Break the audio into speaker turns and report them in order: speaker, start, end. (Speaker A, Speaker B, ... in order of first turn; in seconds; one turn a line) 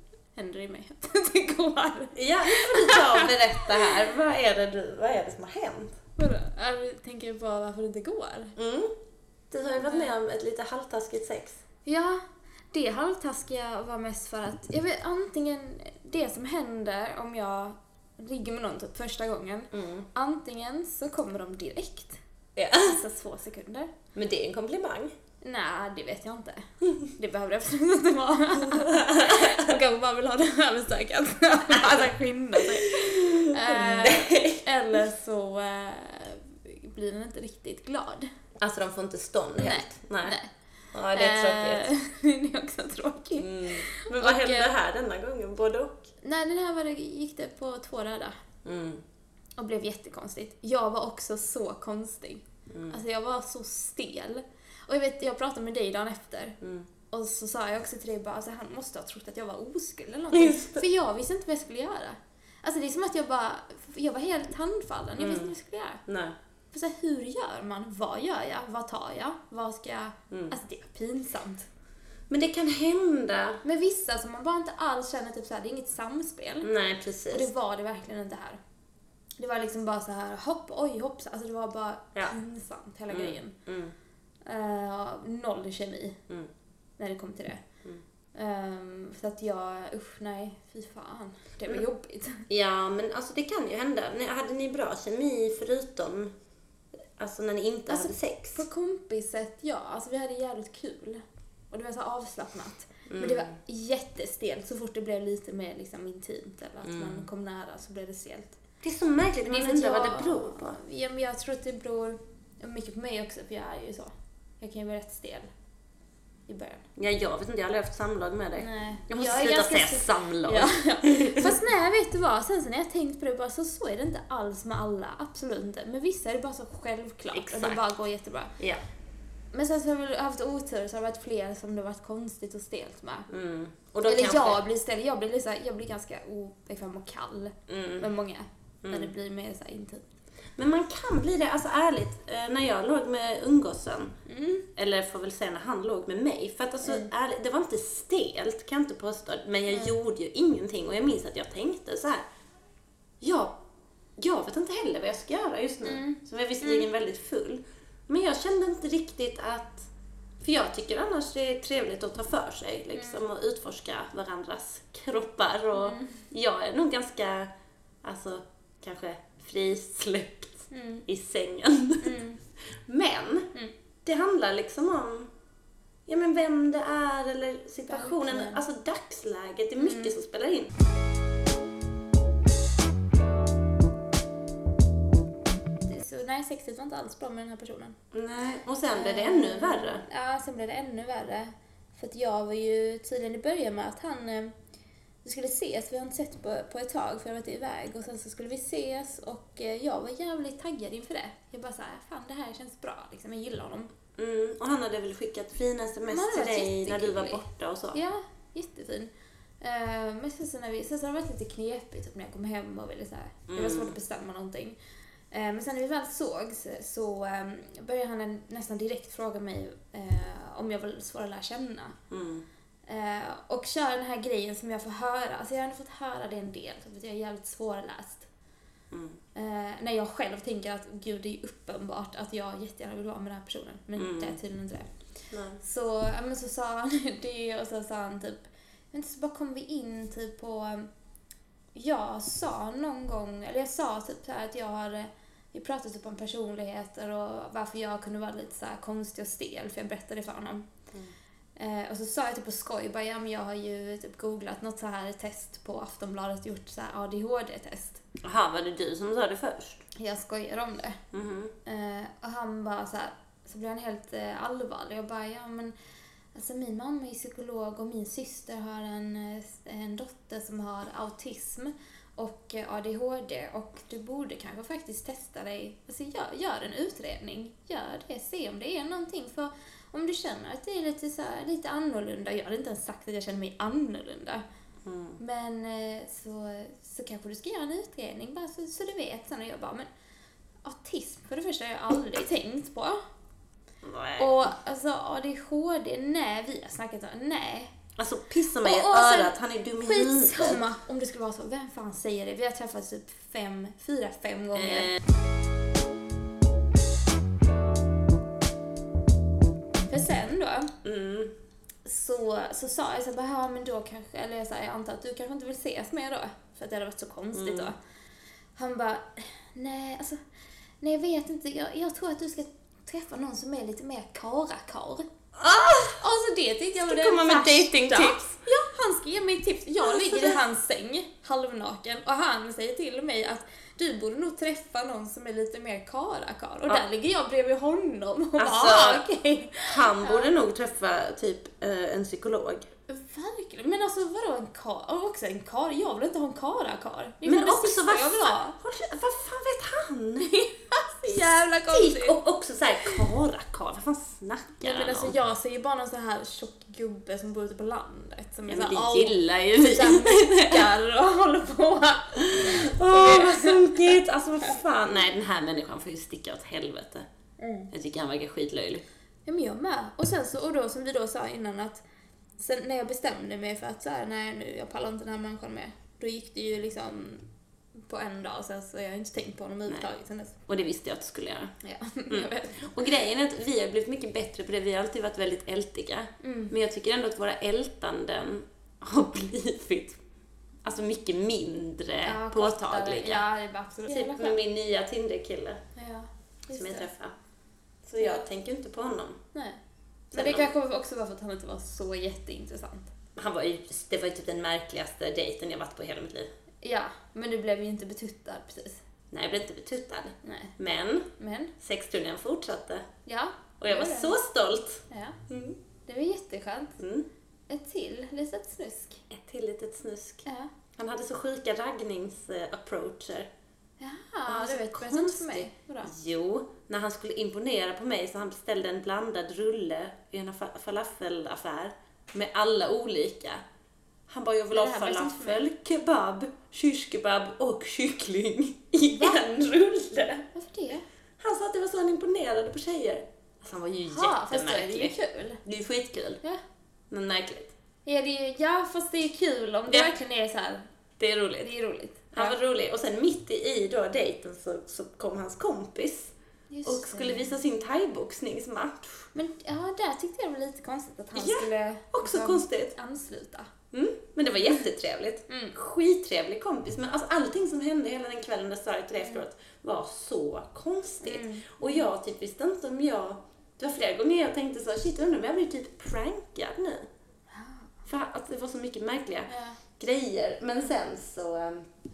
Speaker A: 0.3-3.3
Speaker B: 2.1-6.0
Speaker A: 6.2-8.5
Speaker B: 8.6-8.9
Speaker B: 9.5-11.6
Speaker A: 9.8-10.1
Speaker A: 11.8-22.2
Speaker B: 19.7-20.1
Speaker B: 22.6-23.0
Speaker A: 22.8-23.9
Speaker B: 24.1-25.1
Speaker A: 25.4-38.3
Speaker B: 28.6-29.7
Speaker B: 32.5-35.0
Speaker B: 38.6-40.4
Speaker A: 39.6-40.5
Speaker B: 40.9-41.9
Speaker A: 41.1-44.7
Speaker B: 43.4-46.0
Speaker A: 46.2-48.4
Speaker B: 48.6-49.0
Speaker A: 49.6-56.6
Speaker B: 52.7-53.0
Speaker B: 56.6-56.9
Speaker A: 57.1-66.0
Speaker B: 60.3-60.8
Speaker B: 65.2-65.5
Speaker B: 66.1-66.3
Speaker A: 66.7-71.7
Speaker B: 70.3-70.5
Speaker B: 72.3-73.6
Speaker A: 73.6-76.7
Speaker B: 76.6-77.5
Speaker A: 77.3-78.6
Speaker A: 79.4-83.5
Speaker B: 83.1-83.9
Speaker A: 84.5-86.2
Speaker A: 87.0-87.6
Speaker A: 88.3-92.5
Speaker B: 92.5-96.3
Speaker B: 97.2-98.6
Speaker A: 97.9-108.6
Speaker B: 103.1-103.5
Speaker B: 106.8-107.3
Speaker B: 108.8-110.8
Speaker A: 109.4-115.5
Speaker A: 116.5-116.8
Speaker B: 117.0-121.5
Speaker A: 118.6-128.5
Speaker B: 127.3-127.8
Speaker A: 129.5-133.3
Speaker B: 133.3-134.6
Speaker A: 134.1-140.1
Speaker B: 137.7-138.1
Speaker B: 138.8-139.1
Speaker B: 140.6-144.1
Speaker A: 144.3-144.7
Speaker B: 144.7-152.2
Speaker A: 146.8-147.1
Speaker B: 153.2-153.6
Speaker B: 154.2-167.5
Speaker A: 155.8-156.9
Speaker A: 162.9-163.2
Speaker A: 165.8-166.2
Speaker B: 168.0-172.2
Speaker A: 170.7-171.1
Speaker A: 172.0-172.4
Speaker B: 172.8-173.5
Speaker B: 174.0-175.3
Speaker B: 176.1-180.7
Speaker A: 177.9-178.6
Speaker A: 179.8-180.1
Speaker A: 185.8-187.9
Speaker B: 188.1-190.0
Speaker A: 188.9-194.5
Speaker A: 195.2-203.9
Speaker B: 204.2-208.0
Speaker A: 206.1-207.4
Speaker A: 207.9-214.8
Speaker B: 213.5-213.9
Speaker A: 215.3-221.9
Speaker B: 222.1-222.4
Speaker A: 222.9-228.3
Speaker B: 228.9-229.2
Speaker A: 229.3-240.9
Speaker B: 234.0-234.4
Speaker B: 235.3-235.6
Speaker A: 241.7-250.7
Speaker A: 251.6-258.0
Speaker B: 258.2-259.8
Speaker A: 259.9-261.0
Speaker B: 261.1-261.5
Speaker A: 261.6-265.7
Speaker A: 266.3-284.4
Speaker B: 284.8-285.2
Speaker A: 285.2-289.9
Speaker A: 290.6-293.0
Speaker B: 293.8-294.4
Speaker A: 294.2-297.7
Speaker B: 298.0-300.6
Speaker A: 298.6-304.9
Speaker B: 304.5-305.0
Speaker A: 309.9-310.7
Speaker B: 310.8-311.3
Speaker A: 311.8-317.8
Speaker B: 317.3-317.7
Speaker A: 318.5-320.2
Speaker A: 320.8-325.0
Speaker B: 325.4-326.0
Speaker A: 326.0-340.3
Speaker B: 326.8-328.4
Speaker B: 329.8-330.4
Speaker B: 338.4-339.1
Speaker B: 339.6-342.7
Speaker A: 342.9-348.6
Speaker B: 347.2-350.4
Speaker A: 350.2-352.2
Speaker B: 351.1-355.1
Speaker A: 354.6-363.8
Speaker B: 358.5-360.7
Speaker B: 362.2-367.1
Speaker A: 367.4-367.7
Speaker B: 367.7-368.8
Speaker A: 369.2-371.8
Speaker A: 372.4-380.4
Speaker B: 380.5-381.5
Speaker A: 381.6-382.7
Speaker B: 382.1-390.0
Speaker A: 386.2-386.5
Speaker B: 390.6-393.2
Speaker A: 392.0-394.4
Speaker B: 393.9-395.6
Speaker A: 395.7-396.9
Speaker B: 396.5-397.1
Speaker B: 397.9-399.2
Speaker A: 398.0-398.2
Speaker A: 399.3-399.6
Speaker A: 400.1-402.9
Speaker B: 400.1-400.5
Speaker B: 403.1-406.3
Speaker A: 406.6-408.8
Speaker B: 409.1-412.9
Speaker A: 410.2-410.6
Speaker A: 411.2-411.5
Speaker A: 413.0-414.2
Speaker B: 413.6-415.6
Speaker A: 414.9-415.2
Speaker A: 415.8-416.8
Speaker B: 416.8-417.1
Speaker A: 417.5-419.0
Speaker B: 419.1-423.3
Speaker A: 423.8-425.9
Speaker B: 424.3-433.4
Speaker B: 434.1-440.3
Speaker A: 434.5-435.4
Speaker A: 438.9-439.2
Speaker A: 440.3-440.8
Speaker B: 441.2-446.2
Speaker A: 443.9-445.4
Speaker B: 446.9-447.5
Speaker A: 447.8-450.7
Speaker B: 451.0-451.5
Speaker A: 451.4-452.3
Speaker B: 452.1-456.1
Speaker A: 456.5-457.2
Speaker B: 456.6-459.1
Speaker A: 459.1-463.5
Speaker B: 461.1-462.7
Speaker B: 463.7-476.9
Speaker A: 465.3-465.6
Speaker A: 471.0-471.9
Speaker A: 477.3-477.7
Speaker B: 477.9-481.7
Speaker A: 479.3-479.6